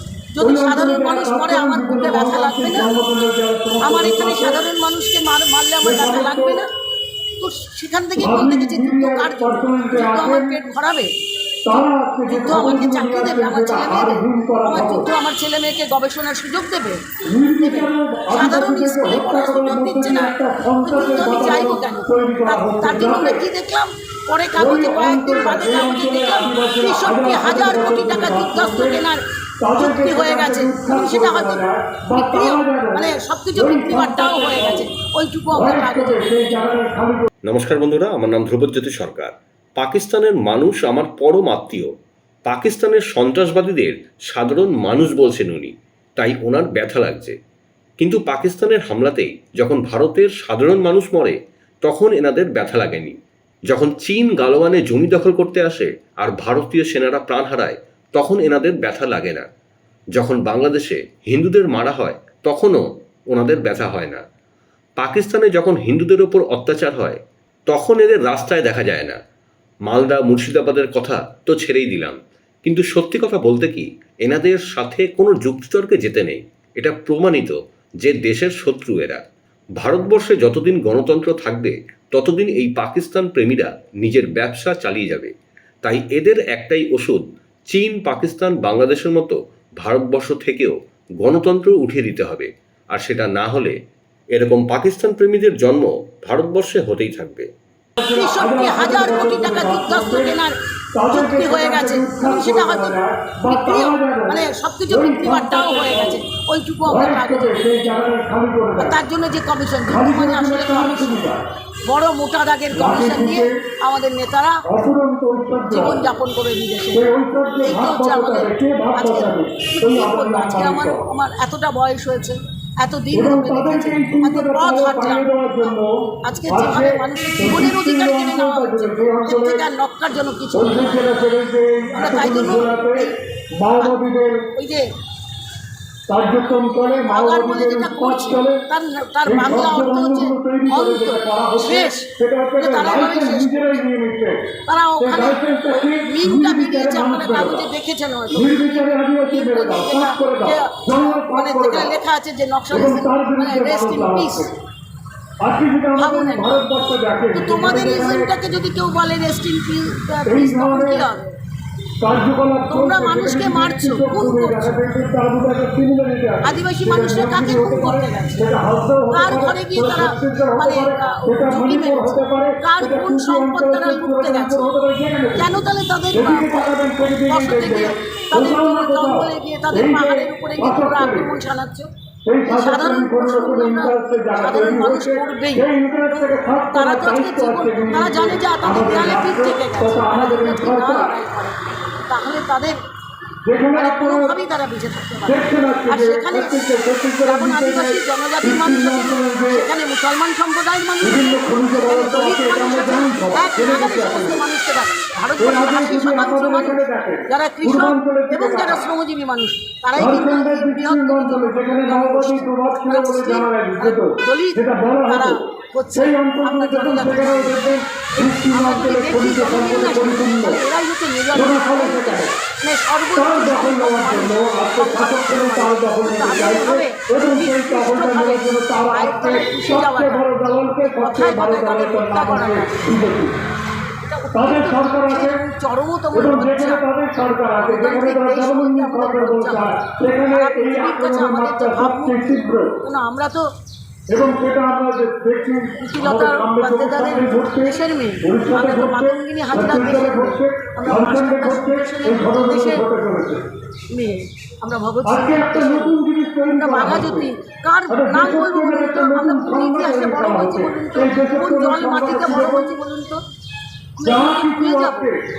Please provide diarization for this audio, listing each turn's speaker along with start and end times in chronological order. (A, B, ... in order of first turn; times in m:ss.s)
0:00.3-0:02.9 A
0:00.4-0:04.6 B
0:03.8-0:06.7 A
0:05.8-0:06.6 B
0:07.4-0:11.1 A
0:08.2-0:10.5 B
0:11.6-0:15.1 B
0:11.7-0:17.0 A
0:17.3-0:23.4 B
0:17.6-0:29.2 A
0:24.6-0:29.0 B
0:29.6-0:34.9 B
0:29.8-0:36.3 A
0:35.5-0:37.3 B
0:37.4-0:41.9 C
0:42.4-0:47.4 C
0:48.0-0:53.2 C
0:53.7-0:59.5 C
1:00.1-1:02.8 C
1:03.3-1:04.2 C
1:05.0-1:09.2 C
1:09.9-1:19.2 C
1:19.8-1:25.3 C
1:25.8-1:33.7 C
1:34.3-1:37.5 C
1:38.0-1:40.4 B
1:38.0-1:40.5 A
1:40.9-1:46.2 B
1:41.1-1:43.0 A
1:43.5-1:47.6 A
1:46.9-1:49.0 B
1:48.8-1:51.2 A
1:49.9-1:51.4 B
1:51.9-1:54.6 A
1:52.7-1:53.5 B
1:54.6-1:56.0 B
1:55.7-1:57.0 A
1:56.9-2:01.1 B
1:57.6-2:11.1 A
2:03.1-2:09.6 B
2:10.5-2:14.5 B
2:11.9-2:13.1 A
2:14.5-2:14.8 A
2:16.1-2:18.6 B
2:17.0-2:23.8 A
2:19.2-2:24.4 B
2:24.7-2:34.5 A
2:25.0-2:27.7 B
2:28.3-2:31.9 B
2:32.7-2:34.5 B
2:35.4-2:38.3 B
2:36.0-2:36.6 A
2:37.3-2:41.3 A
2:40.2-2:41.1 B
2:42.0-2:55.5 B
2:42.7-2:44.8 A
2:46.4-2:48.4 A
2:49.1-2:54.7 A
2:55.4-2:56.8 A
2:56.1-3:01.3 B
2:57.3-3:01.9 A
3:02.2-3:11.1 B
3:02.4-3:12.8 A
3:13.4-3:14.3 B
3:13.7-3:16.5 A
3:15.2-3:19.6 B
3:17.2-3:50.3 A
3:21.0-3:24.4 B
3:25.4-3:28.9 B
3:29.9-3:40.6 B
3:41.3-3:42.3 B
3:43.2-3:53.3 B
3:51.0-3:52.8 A
3:54.0-3:56.8 A
3:54.3-3:55.4 B
3:56.1-4:02.8 B
3:57.5-3:59.8 A
4:00.3-4:03.4 A
4:04.1-4:13.4 B
4:05.8-4:12.8 A
4:13.9-4:16.0 A
4:15.0-4:17.3 B
4:16.6-4:23.2 A
4:17.9-4:22.7 B
4:24.0-4:25.1 A
4:24.0-4:25.2 B